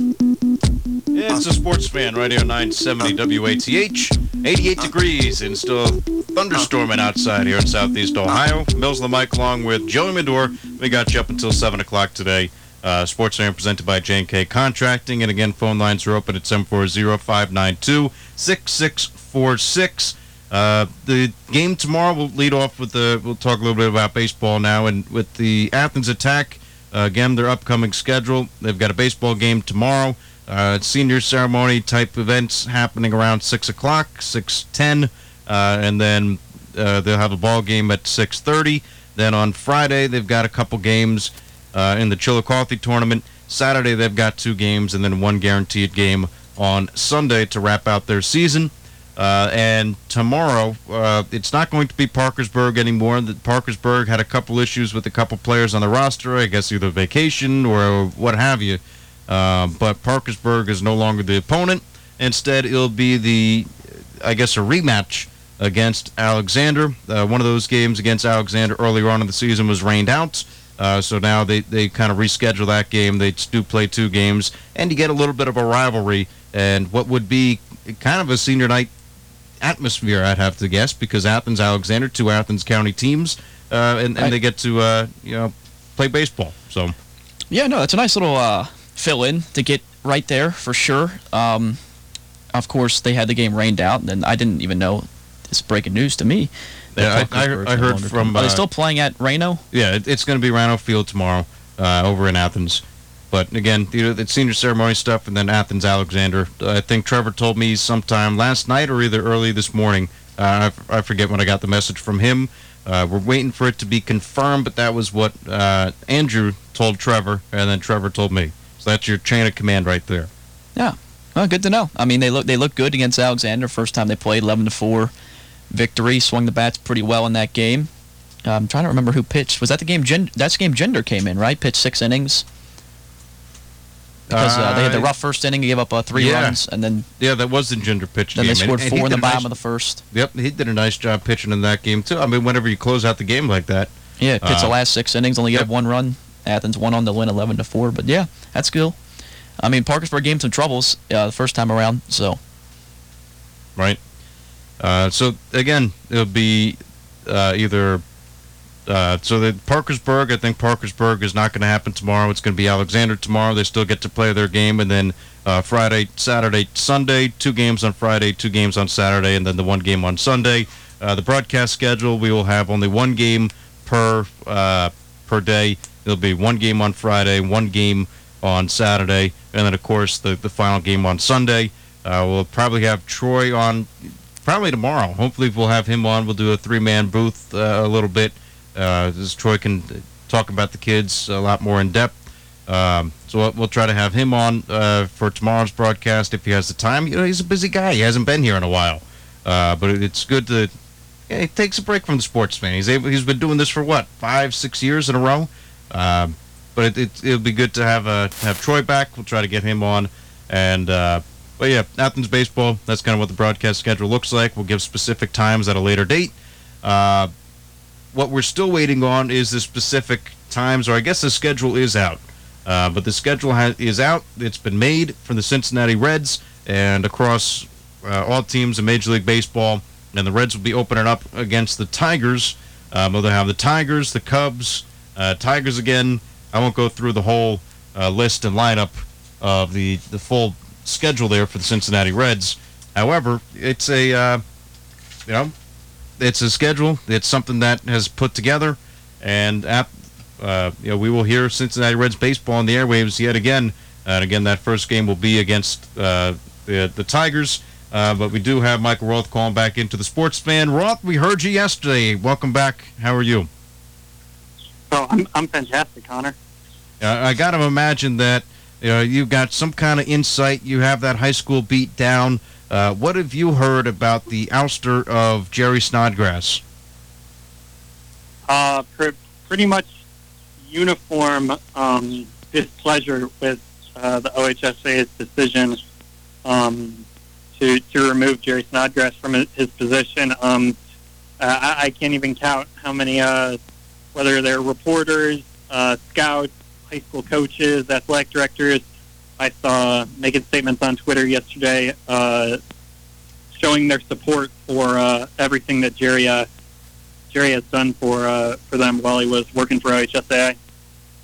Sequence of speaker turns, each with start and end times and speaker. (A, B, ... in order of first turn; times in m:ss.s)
0:01.1-1:18.9 A
1:19.6-1:27.0 A
1:27.5-1:31.8 B
1:32.5-1:39.6 B
1:37.0-1:38.6 A
1:39.7-2:00.3 A
2:00.8-2:05.1 B
2:05.7-2:07.9 B
2:08.5-2:12.4 B
2:14.3-2:15.1 A
2:14.3-2:17.1 B
2:16.1-2:16.6 A
2:17.2-2:19.5 A
2:18.4-2:20.0 B
2:20.1-2:23.9 A
2:24.2-2:29.0 B
2:24.4-2:24.7 A
2:29.6-2:32.4 B
2:34.8-2:38.0 A
2:38.9-3:03.9 A
3:04.4-3:20.7 A
3:21.3-3:37.3 A
3:38.1-4:04.4 A
4:05.3-4:05.5 A
4:06.2-4:23.5 A
4:24.9-4:26.4 C
4:27.0-4:36.6 A
4:38.5-4:39.9 C
4:40.6-4:45.8 C
4:46.4-4:47.0 C
4:47.6-4:50.8 C
4:51.4-4:53.6 C
4:54.2-4:58.8 C
4:59.4-5:02.6 C
5:03.5-5:06.5 C
5:07.3-5:10.6 C